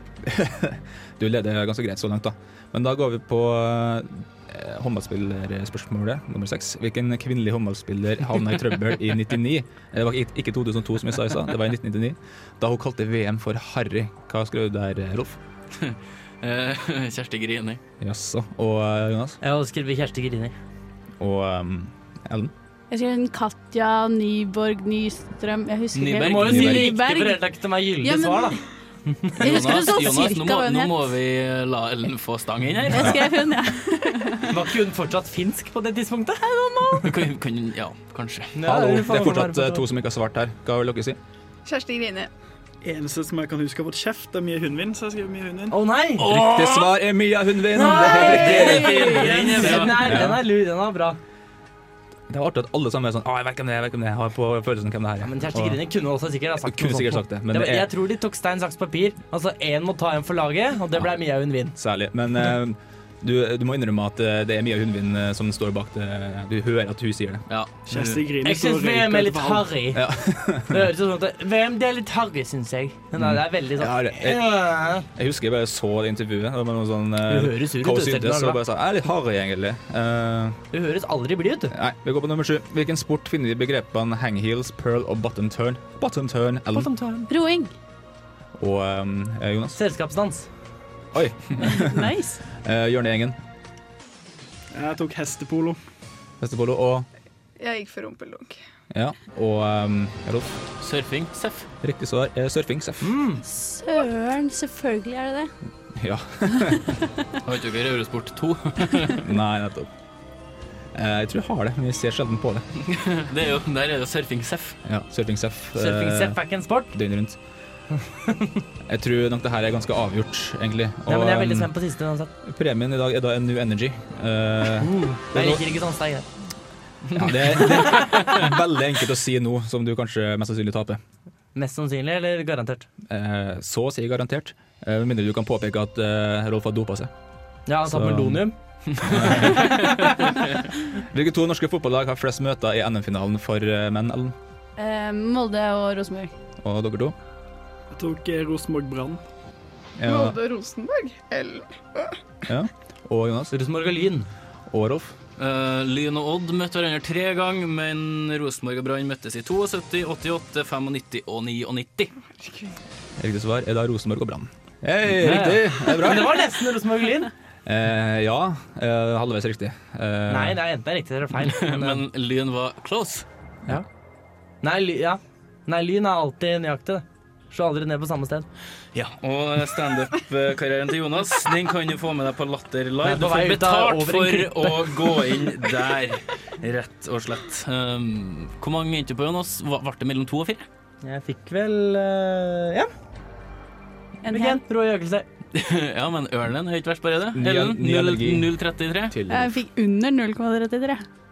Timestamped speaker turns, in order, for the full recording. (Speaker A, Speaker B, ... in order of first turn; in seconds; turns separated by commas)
Speaker A: 0.2-15.4, Speaker B: 15.8-17.8, Speaker A: 18.0-19.4, Speaker C: 19.4-20.6, Speaker A: 21.2-22.5, Speaker D: 22.9-27.4, Speaker B: 25.9-26.9, Speaker C: 26.2-29.6, Speaker A: 26.4-26.9, Speaker D: 28.0-28.6, Speaker B: 29.4-33.3, Speaker D: 29.4-31.1, Speaker D: 32.9-34.6, Speaker A: 32.9-33.2, Speaker C: 34.5-37.2, Speaker B: 37.0-38.5, Speaker C: 38.5-39.9, Speaker A: 38.6-41.2, Speaker E: 41.6-42.3, Speaker F: 42.8-45.8, Speaker C: 45.7-46.3, Speaker B: 46.2-46.9, Speaker A: 46.3-50.4, Speaker C: 47.7-51.2, Speaker B: 48.3-50.2, Speaker A: 52.3-55.8, Speaker C: 55.2-61.8, Speaker A: 56.6-57.9, Speaker A: 61.8-67.5, Speaker B: 67.5-68.3, Speaker F: 67.9-69.7, Speaker C: 68.4-70.0, Speaker A: 69.9-70.9, Speaker C: 70.7-75.1, Speaker A: 73.2-80.6, Speaker C: 77.3-78.6, Speaker C: 80.7-81.7, Speaker A: 81.7-86.9, Speaker C: 86.7-87.3, Speaker D: 87.3-87.7, Speaker A: 88.6-89.8, Speaker C: 89.8-90.5, Speaker A: 91.1-93.4, Speaker D: 91.6-92.4, Speaker F: 94.7-95.8, Speaker A: 96.4-97.1, Speaker E: 97.6-98.6, Speaker A: 98.9-100.6, Speaker B: 100.8-101.7, Speaker A: 101.8-103.1, Speaker C: 103.0-103.4, Speaker D: 103.4-105.5, Speaker A: 105.9-106.9, Speaker D: 106.5-107.0, Speaker B: 107.4-109.2, Speaker A: 109.2-109.9, Speaker A: 110.9-112.6, Speaker B: 112.8-114.8, Speaker A: 114.8-116.4, Speaker C: 115.8-116.9, Speaker A: 116.9-117.4, Speaker C: 118.1-118.6, Speaker A: 118.9-121.7, Speaker C: 121.1-122.3, Speaker A: 122.4-125.6, Speaker C: 124.8-126.3, Speaker B: 127.1-128.4, Speaker A: 127.1-131.0, Speaker C: 131.6-132.9, Speaker A: 133.1-137.1, Speaker C: 137.7-139.9, Speaker A: 137.8-138.5, Speaker B: 139.0-140.6, Speaker A: 139.0-140.0, Speaker A: 141.0-144.4, Speaker D: 144.8-146.3, Speaker A: 146.6-147.2, Speaker F: 147.9-149.2, Speaker A: 150.0-150.4, Speaker E: 150.1-152.2, Speaker A: 152.4-153.5, Speaker C: 153.5-154.3, Speaker A: 154.7-155.1, Speaker B: 155.4-162.1, Speaker A: 163.2-166.5, Speaker C: 165.1-167.3, Speaker A: 167.7-170.6, Speaker C: 170.3-172.0, Speaker B: 171.4-173.3, Speaker C: 174.6-178.5, Speaker B: 178.9-190.7, Speaker C: 183.0-185.1, Speaker C: 191.0-192.9, Speaker D: 194.2-194.6, Speaker C: 194.3-195.3, Speaker B: 195.5-199.2, Speaker A: 197.3-198.5, Speaker A: 199.1-199.5, Speaker D: 199.3-201.1